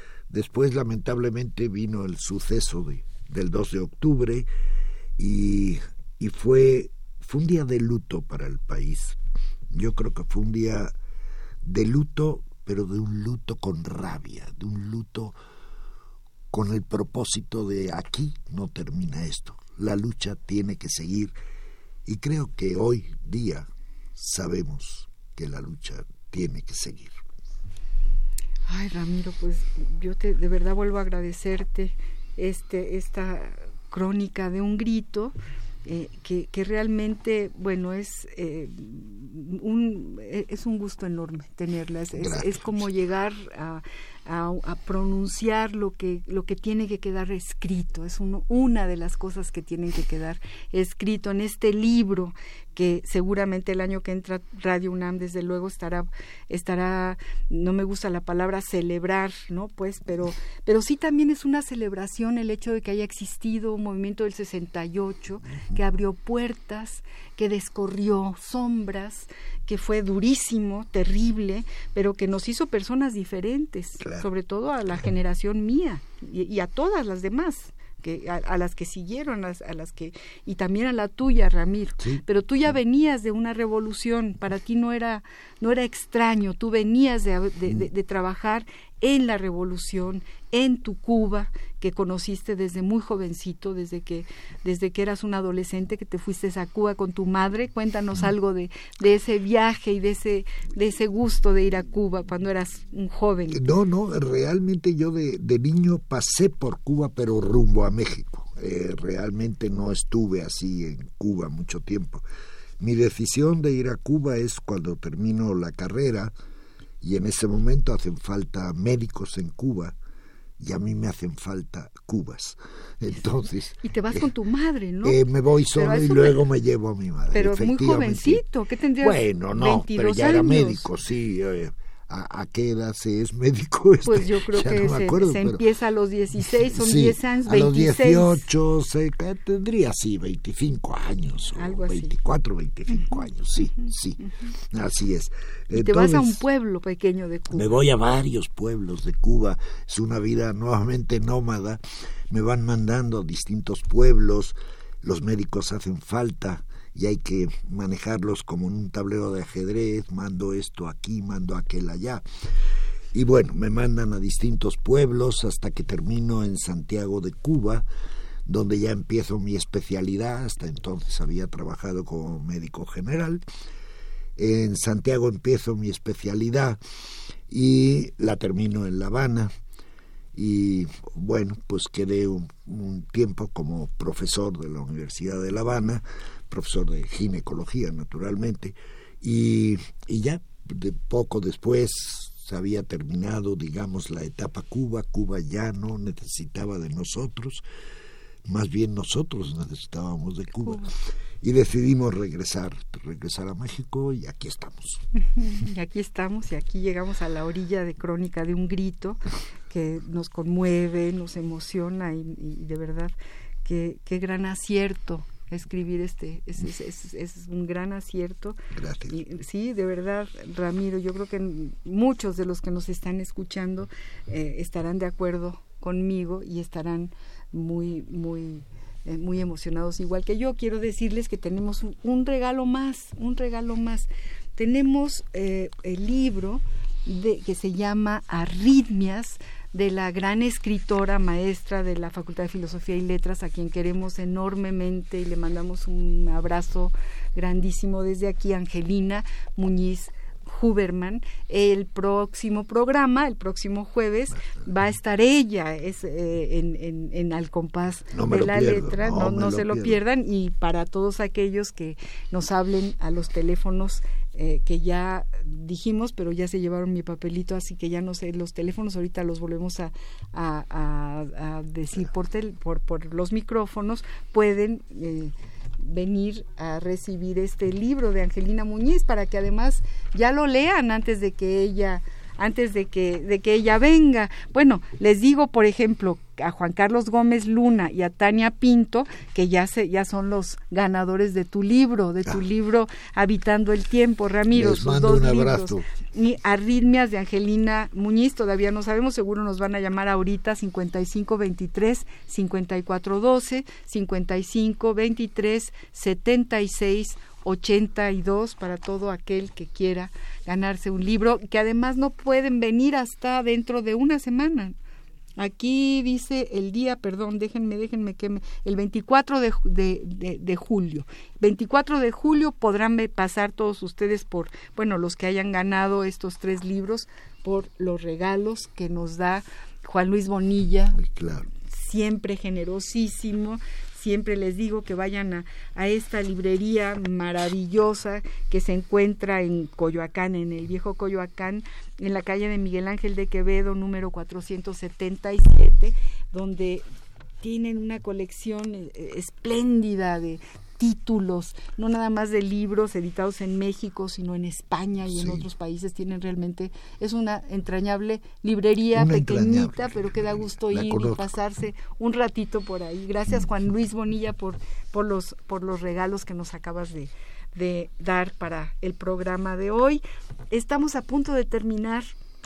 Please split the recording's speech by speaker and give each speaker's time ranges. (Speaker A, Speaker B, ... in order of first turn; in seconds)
Speaker A: 0.3-4.5, 5.2-9.2, 9.7-10.9, 11.6-15.4, 16.5-21.3, 22.1-27.2, 42.2-42.8, 103.5-112.2, 112.8-116.3, 117.0-120.0, 120.6-124.2, 125.0-128.4, 129.0-135.6, 136.7-146.4, 147.5-162.2, 163.1-167.9, 168.5-173.4, 174.4-176.8, 177.5-179.5, 180.3-197.6, 198.5-200.9, 201.4-205.0, 218.7-219.2, 258.1-260.0, 294.5-295.9, 331.0-331.5, 355.1-355.5, 358.9-361.3
Speaker B: 28.7-35.3, 35.9-103.6, 123.8-125.2, 125.8-126.4, 127.3-130.9, 134.1-138.5, 141.6-142.2, 145.7-147.7, 200.6-200.9, 205.2-218.6, 219.1-314.8, 315.4-331.0, 331.6-346.9, 347.4-372.1